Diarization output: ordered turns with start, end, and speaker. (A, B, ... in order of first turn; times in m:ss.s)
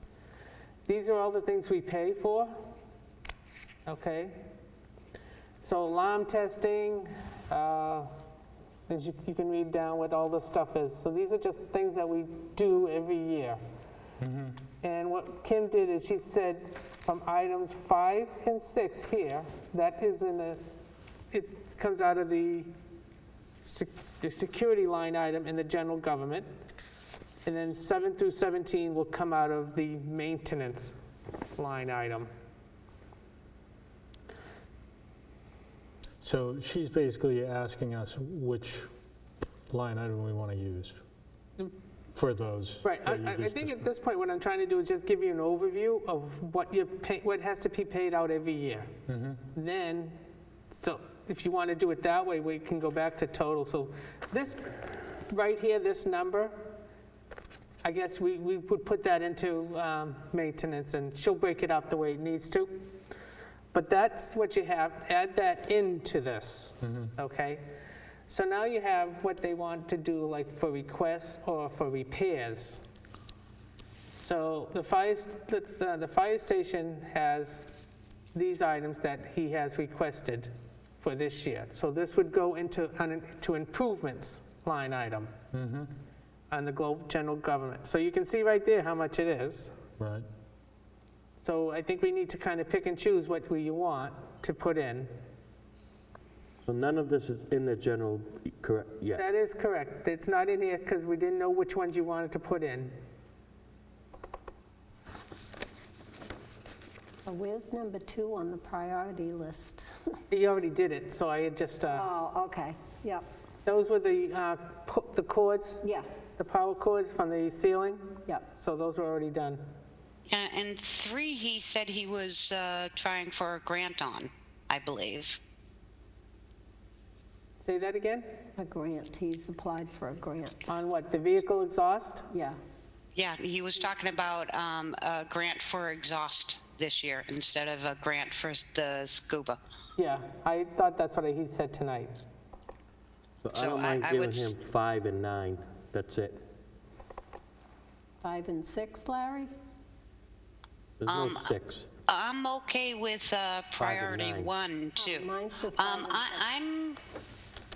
0:00.9-0:02.7 A
0:03.9-0:04.4 A
0:05.6-0:08.1 A
0:08.9-0:13.6 A
0:14.2-0:14.6 B
0:14.8-0:20.6 A
0:21.3-0:22.7 A
0:23.6-0:26.5 A
0:27.4-0:30.9 A
0:31.6-0:32.3 A
0:36.2-0:38.9 B
0:39.7-0:41.0 B
0:42.1-0:43.8 B
0:42.8-0:48.9 A
0:49.1-0:49.4 B
0:49.5-0:50.2 A
0:50.7-0:56.7 A
0:57.8-1:02.9 A
1:03.7-1:07.6 A
1:06.8-1:07.1 B
1:08.3-1:12.8 A
1:14.2-1:17.7 A
1:18.3-1:25.3 A
1:25.5-1:25.9 B
1:26.5-1:29.7 A
1:30.0-1:30.3 B
1:31.4-1:35.1 A
1:36.6-1:39.2 C
1:39.2-1:42.9 A
1:47.3-1:49.8 D
1:50.3-1:52.1 A
1:51.9-1:53.2 D
1:53.7-1:59.6 A
2:00.3-2:05.4 E
2:07.6-2:08.3 A
2:08.6-2:10.7 D
2:10.7-2:12.3 A
2:12.3-2:12.6 D
2:13.2-2:19.6 E
2:20.0-2:22.1 A
2:23.4-2:26.4 C
2:23.5-2:24.5 E
2:28.2-2:29.5 D
2:31.0-2:31.9 C
2:31.1-2:31.6 E
2:32.1-2:37.0 E
2:33.8-2:34.5 C
2:35.0-2:36.6 D